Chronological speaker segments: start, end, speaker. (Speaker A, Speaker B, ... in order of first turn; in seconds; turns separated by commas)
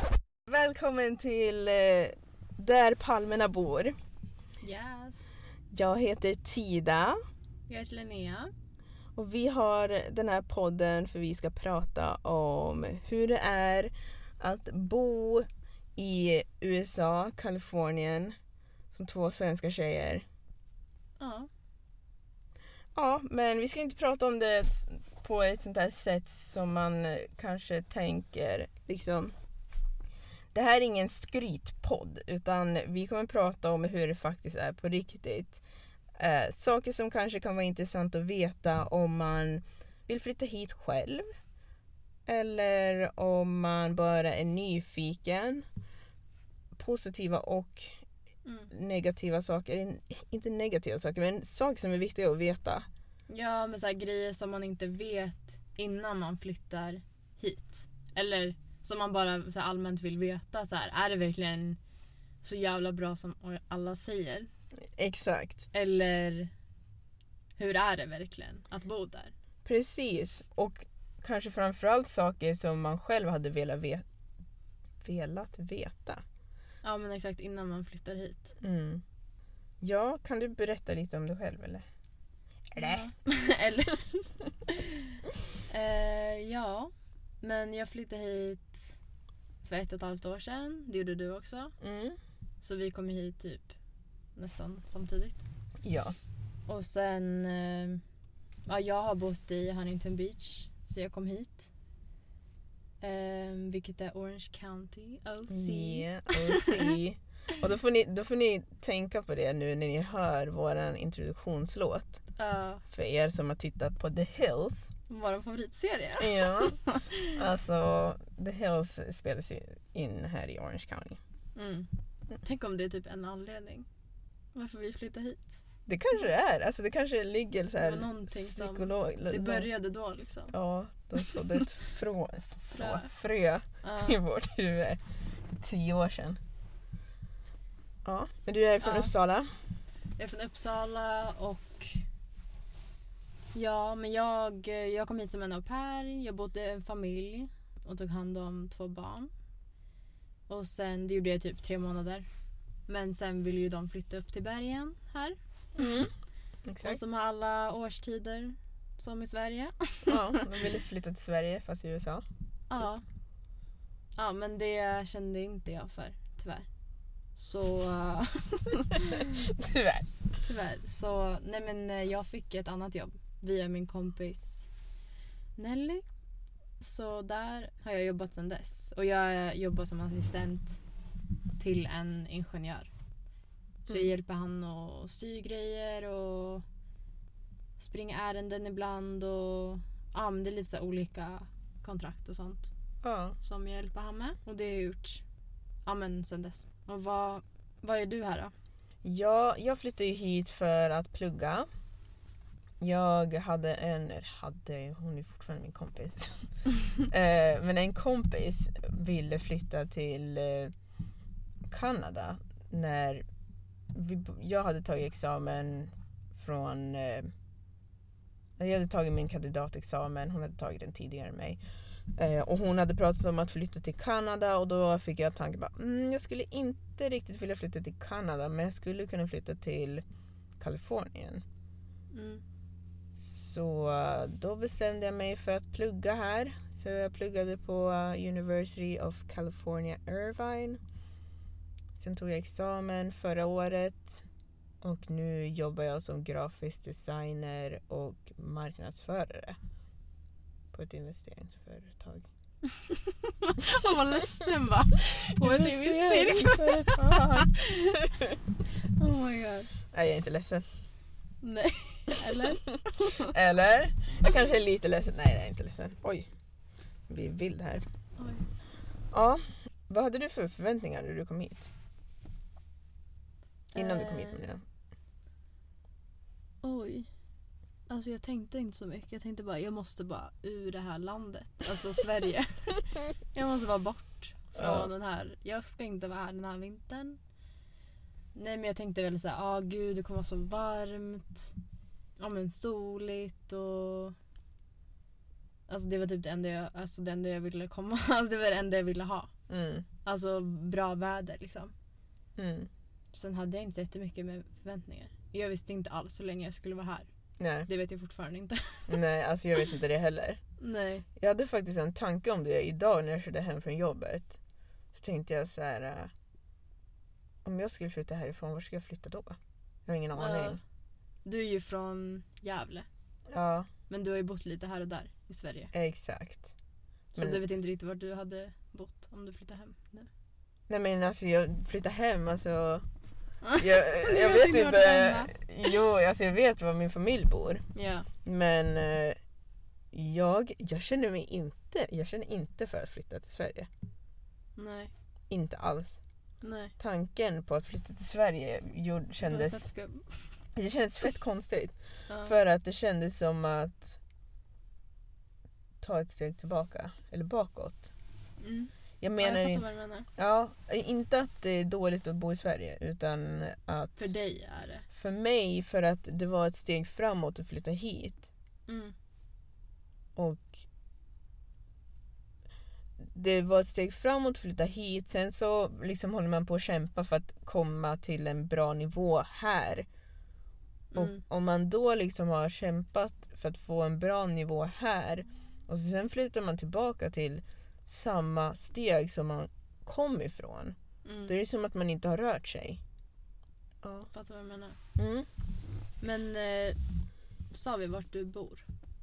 Speaker A: 0.5-3.9, Speaker B: 4.6-5.4, Speaker A: 5.7-7.2, Speaker B: 7.7-8.5, Speaker A: 9.2-18.3, Speaker A: 18.9-20.2, Speaker B: 21.2-21.5, Speaker A: 22.9-29.3, Speaker A: 30.5-35.6, Speaker A: 36.2-41.2, Speaker A: 42.3-45.7, Speaker A: 46.8-47.9, Speaker B: 48.4-48.7, Speaker A: 48.7-52.9, Speaker B: 53.3-61.8, Speaker B: 62.4-64.5, Speaker A: 65.0-65.7, Speaker B: 65.7-66.5, Speaker B: 67.6-69.3, Speaker A: 69.6-74.0, Speaker A: 75.0-76.2, Speaker B: 76.8-78.6, Speaker A: 78.6-79.0, Speaker A: 79.8-81.8, Speaker A: 82.7-83.1, Speaker B: 82.8-85.2, Speaker B: 85.7-86.9, Speaker B: 87.4-88.9, Speaker B: 89.6-91.8, Speaker A: 91.8-92.2, Speaker B: 92.6-93.8, Speaker B: 94.4-95.4, Speaker A: 95.8-96.1, Speaker B: 96.7-98.0, Speaker B: 98.7-101.7, Speaker B: 103.0-107.0, Speaker A: 105.5-112.2, Speaker B: 112.3-113.0, Speaker A: 112.9-114.9, Speaker B: 115.1-117.3, Speaker A: 116.2-121.2, Speaker B: 121.5-121.9, Speaker B: 122.4-123.9, Speaker B: 124.5-125.6, Speaker A: 125.8-129.7, Speaker B: 127.8-130.5, Speaker A: 130.5-136.4, Speaker B: 131.2-131.6, Speaker B: 132.7-133.1, Speaker B: 133.8-134.2, Speaker A: 138.0-139.5, Speaker B: 138.8-139.1, Speaker B: 140.2-142.0, Speaker B: 143.5-149.3, Speaker B: 150.5-152.2, Speaker B: 152.9-156.0, Speaker A: 155.8-156.1, Speaker A: 156.7-157.0, Speaker B: 156.8-160.5, Speaker A: 160.1-162.2, Speaker B: 162.7-163.0, Speaker B: 164.2-166.7, Speaker B: 167.3-169.3, Speaker A: 169.2-170.1, Speaker B: 170.4-174.7, Speaker B: 175.6-176.0, Speaker B: 176.8-180.8, Speaker B: 181.6-182.9, Speaker B: 183.8-186.7, Speaker B: 187.8-192.7, Speaker A: 193.0-193.4, Speaker B: 193.4-195.2, Speaker B: 195.8-198.5, Speaker A: 199.0-201.7, Speaker A: 202.8-206.5, Speaker A: 207.1-210.7, Speaker A: 211.7-213.2, Speaker A: 213.9-217.3, Speaker A: 218.6-221.6, Speaker A: 222.1-230.0, Speaker A: 230.6-231.4, Speaker B: 232.1-232.4, Speaker A: 233.2-240.8, Speaker A: 242.0-244.2, Speaker A: 244.8-249.6, Speaker A: 250.7-252.3, Speaker B: 252.8-257.6, Speaker A: 255.1-258.4, Speaker B: 258.9-259.7, Speaker A: 259.9-260.6, Speaker B: 261.4-263.4, Speaker A: 263.1-266.3, Speaker A: 267.1-267.9, Speaker B: 268.2-268.4, Speaker A: 269.1-271.7, Speaker B: 273.7-274.4, Speaker A: 273.8-274.6, Speaker B: 276.6-277.1, Speaker B: 277.9-287.2, Speaker A: 284.6-284.9, Speaker B: 288.4-291.6, Speaker B: 292.2-294.1, Speaker B: 295.7-299.3, Speaker A: 299.5-299.9, Speaker B: 300.0-301.7, Speaker A: 302.4-302.7, Speaker B: 303.1-307.1, Speaker A: 307.4-307.7, Speaker B: 307.7-308.9, Speaker A: 308.9-310.4, Speaker B: 310.6-311.1, Speaker A: 311.2-314.4, Speaker A: 314.9-316.1, Speaker A: 317.4-319.4, Speaker A: 319.9-320.6, Speaker B: 320.1-320.6, Speaker B: 321.2-322.9, Speaker A: 323.3-323.7, Speaker B: 323.9-325.7, Speaker A: 325.7-326.5, Speaker B: 327.1-330.1, Speaker A: 327.1-327.4, Speaker A: 330.7-332.9, Speaker B: 333.4-335.7, Speaker A: 333.6-337.6, Speaker B: 337.7-338.1, Speaker A: 338.2-339.2, Speaker A: 339.9-343.7, Speaker B: 344.6-344.9, Speaker A: 345.3-346.0, Speaker B: 346.4-346.7, Speaker A: 346.8-349.6, Speaker B: 349.2-350.3, Speaker A: 350.6-354.0, Speaker B: 352.1-352.4, Speaker A: 355.8-357.9, Speaker B: 358.4-360.1, Speaker A: 359.0-359.6, Speaker A: 360.2-364.1, Speaker B: 364.0-364.9, Speaker A: 364.9-368.3, Speaker B: 368.7-368.9, Speaker A: 370.1-370.6, Speaker A: 373.0-379.9, Speaker B: 380.9-381.2, Speaker A: 380.9-390.8, Speaker B: 391.1-391.4, Speaker A: 391.3-392.8, Speaker A: 393.8-394.1, Speaker B: 394.1-394.8, Speaker A: 394.9-395.3, Speaker B: 396.0-396.8, Speaker B: 397.5-398.6